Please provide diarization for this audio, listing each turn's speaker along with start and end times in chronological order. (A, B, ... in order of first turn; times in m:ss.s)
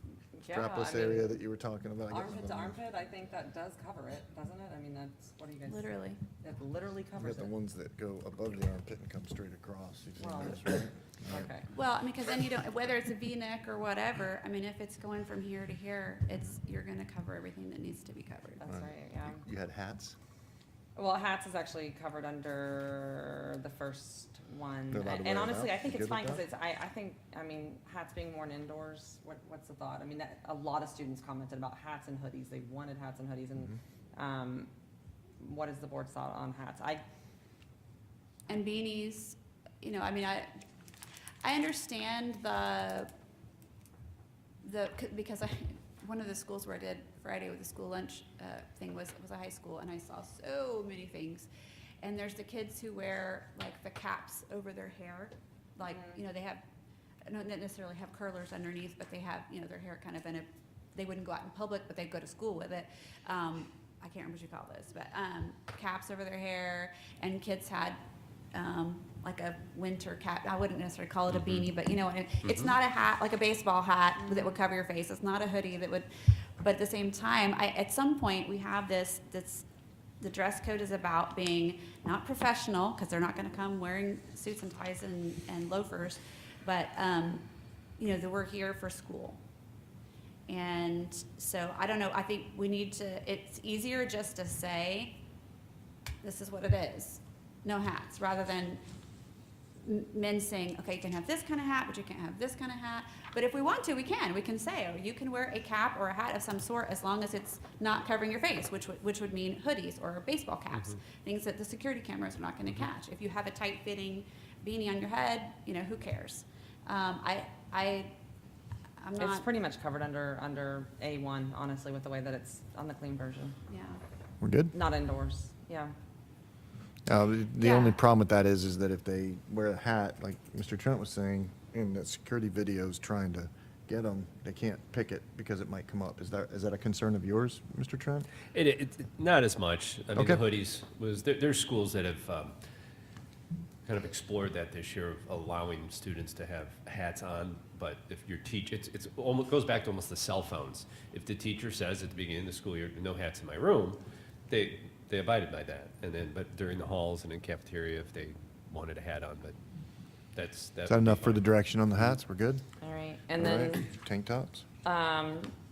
0:00.4-0:01.4 A
0:00.5-0:02.8 B
0:02.1-0:07.5 A
0:05.7-0:06.2 C
0:07.2-0:11.5 B
0:10.2-0:11.7 A
0:11.7-0:18.6 C
0:18.6-0:19.4 A
0:18.7-0:20.2 B
0:21.0-0:34.7 A
0:24.9-0:26.4 B
0:35.4-0:37.0 A
0:38.5-0:40.5 C
0:41.4-0:43.1 C
0:44.6-0:51.5 C
0:52.0-0:56.6 C
0:55.8-0:56.2 A
0:57.3-1:08.0 C
1:08.5-1:19.7 C
1:11.3-1:11.7 D
1:12.4-1:12.8 D
1:14.2-1:14.5 A
1:20.2-1:27.4 C
1:28.0-1:29.4 C
1:30.5-1:35.2 C
1:36.2-1:38.8 C
1:39.8-1:58.1 C
1:59.0-1:59.5 C
1:59.2-2:03.6 A
2:03.7-2:04.0 C
2:04.4-2:04.7 B
2:04.7-2:05.9 A
2:07.1-2:18.3 B
2:07.6-2:08.0 C
2:18.5-2:22.6 D
2:20.1-2:20.4 B
2:23.9-2:39.6 D
2:40.3-2:41.5 D
2:40.9-2:42.6 B
2:42.8-2:43.9 A
2:43.3-2:44.6 B
2:44.8-2:45.6 A